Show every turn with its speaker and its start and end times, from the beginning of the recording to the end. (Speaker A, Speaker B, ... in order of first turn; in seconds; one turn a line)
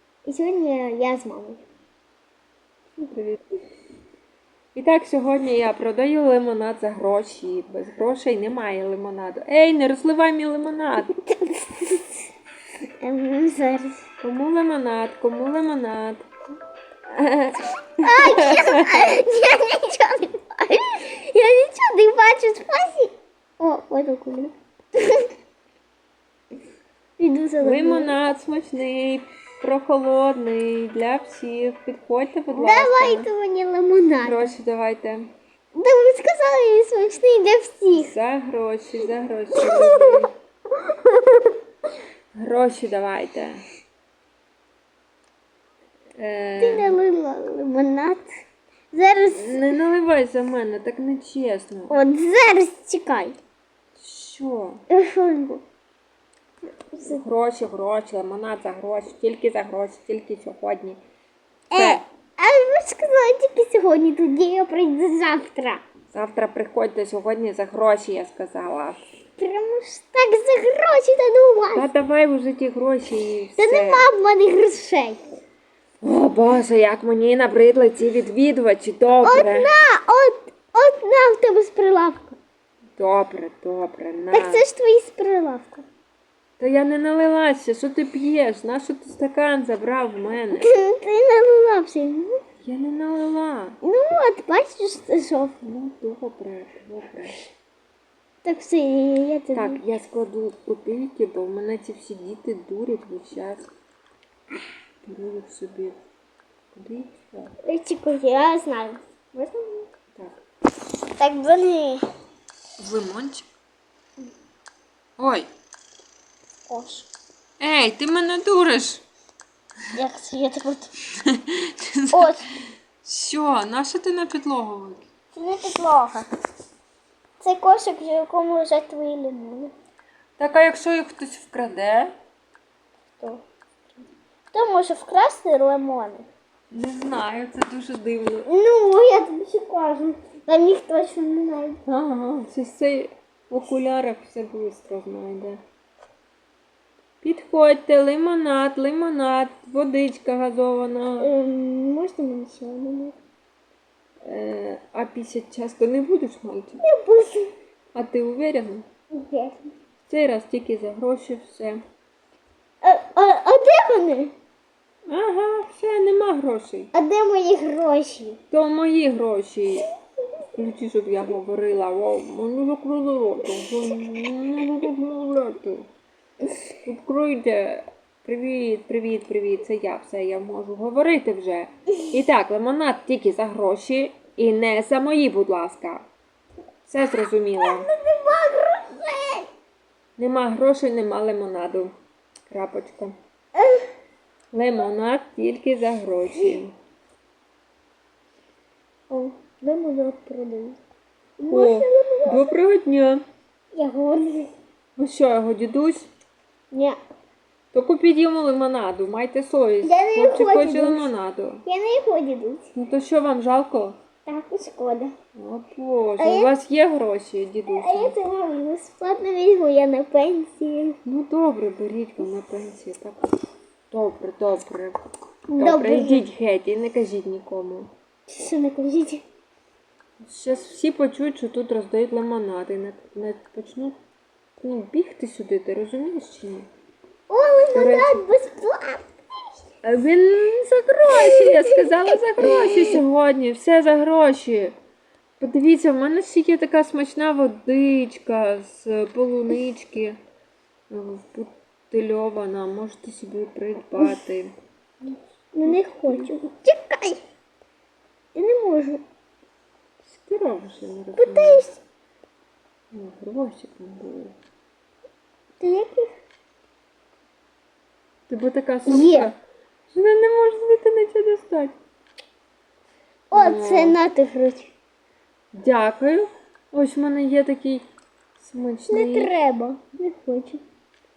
Speaker A: 0.2-1.6
Speaker B: 3.1-3.4
Speaker B: 4.8-11.1
Speaker A: 11.4-12.1
Speaker A: 13.0-14.0
Speaker B: 14.2-16.2
Speaker A: 17.2-25.3
Speaker B: 18.0-19.1
Speaker A: 27.2-28.1
Speaker B: 27.6-33.3
Speaker A: 32.5-34.5
Speaker B: 34.2-35.3
Speaker A: 35.8-38.1
Speaker B: 38.0-40.3
Speaker A: 39.6-40.2
Speaker A: 40.8-41.6
Speaker B: 42.3-43.6
Speaker B: 46.2-47.0
Speaker A: 46.6-48.3
Speaker A: 48.9-49.6
Speaker B: 49.3-52.0
Speaker A: 51.9-53.4
Speaker B: 54.0-54.8
Speaker A: 54.9-55.6
Speaker A: 56.9-57.2
Speaker B: 57.1-61.0
Speaker A: 61.7-65.8
Speaker B: 61.7-62.0
Speaker B: 66.1-69.0
Speaker A: 69.4-71.9
Speaker B: 71.7-74.0
Speaker A: 73.6-75.2
Speaker B: 76.0-79.7
Speaker A: 79.2-82.4
Speaker B: 83.0-84.7
Speaker A: 84.3-85.8
Speaker B: 86.6-90.7
Speaker A: 90.5-92.4
Speaker B: 92.6-93.8
Speaker A: 93.8-95.6
Speaker B: 95.6-97.4
Speaker A: 98.4-99.8
Speaker B: 99.5-103.7
Speaker B: 105.0-106.0
Speaker B: 106.7-107.5
Speaker A: 107.6-109.9
Speaker B: 110.2-110.4
Speaker A: 111.2-112.1
Speaker B: 112.8-113.5
Speaker B: 115.2-115.5
Speaker A: 116.7-117.1
Speaker B: 117.6-119.0
Speaker A: 119.9-120.9
Speaker B: 121.2-122.3
Speaker A: 122.1-122.5
Speaker B: 123.0-125.0
Speaker A: 125.3-126.3
Speaker A: 127.4-129.7
Speaker B: 130.4-132.1
Speaker A: 134.5-136.3
Speaker B: 136.7-138.5
Speaker A: 138.5-141.8
Speaker B: 141.9-145.6
Speaker B: 147.2-151.3
Speaker A: 151.2-153.2
Speaker B: 154.2-156.8
Speaker A: 156.8-157.5
Speaker B: 157.9-158.9
Speaker A: 159.1-159.6
Speaker B: 160.1-161.8
Speaker A: 162.8-164.3
Speaker B: 165.1-166.9
Speaker A: 166.9-168.4
Speaker B: 168.5-169.9
Speaker B: 170.5-175.9
Speaker B: 176.8-186.1
Speaker B: 186.9-187.9
Speaker A: 187.6-189.5
Speaker B: 190.2-191.9
Speaker B: 192.5-193.2
Speaker A: 193.6-193.9
Speaker B: 194.5-196.8
Speaker A: 199.1-200.8
Speaker A: 201.4-202.5
Speaker B: 201.5-203.2
Speaker A: 203.7-204.5
Speaker B: 205.0-206.1
Speaker A: 206.7-207.0
Speaker B: 207.7-211.6
Speaker A: 209.8-211.1
Speaker A: 211.7-212.7
Speaker B: 212.8-213.9
Speaker A: 214.3-215.1
Speaker B: 215.3-218.2
Speaker A: 216.2-216.5
Speaker A: 217.7-221.0
Speaker B: 221.1-223.3
Speaker B: 223.9-225.0
Speaker A: 225.5-226.2
Speaker B: 225.6-227.9
Speaker A: 228.3-229.2
Speaker B: 230.2-233.9
Speaker B: 234.6-236.7
Speaker A: 237.3-239.1
Speaker B: 237.7-238.2
Speaker B: 239.8-244.7
Speaker A: 241.2-241.9
Speaker A: 242.4-243.0
Speaker B: 245.4-250.2
Speaker B: 250.9-254.5
Speaker A: 255.5-257.2
Speaker B: 255.7-256.3
Speaker A: 258.4-259.0
Speaker B: 260.1-261.7
Speaker A: 261.2-261.8
Speaker B: 262.9-264.4
Speaker A: 265.6-266.1
Speaker B: 268.3-269.4
Speaker A: 268.9-269.3
Speaker B: 269.9-271.8
Speaker A: 273.3-274.7
Speaker B: 273.3-274.0
Speaker B: 275.5-277.8
Speaker B: 278.4-279.3
Speaker A: 278.9-280.6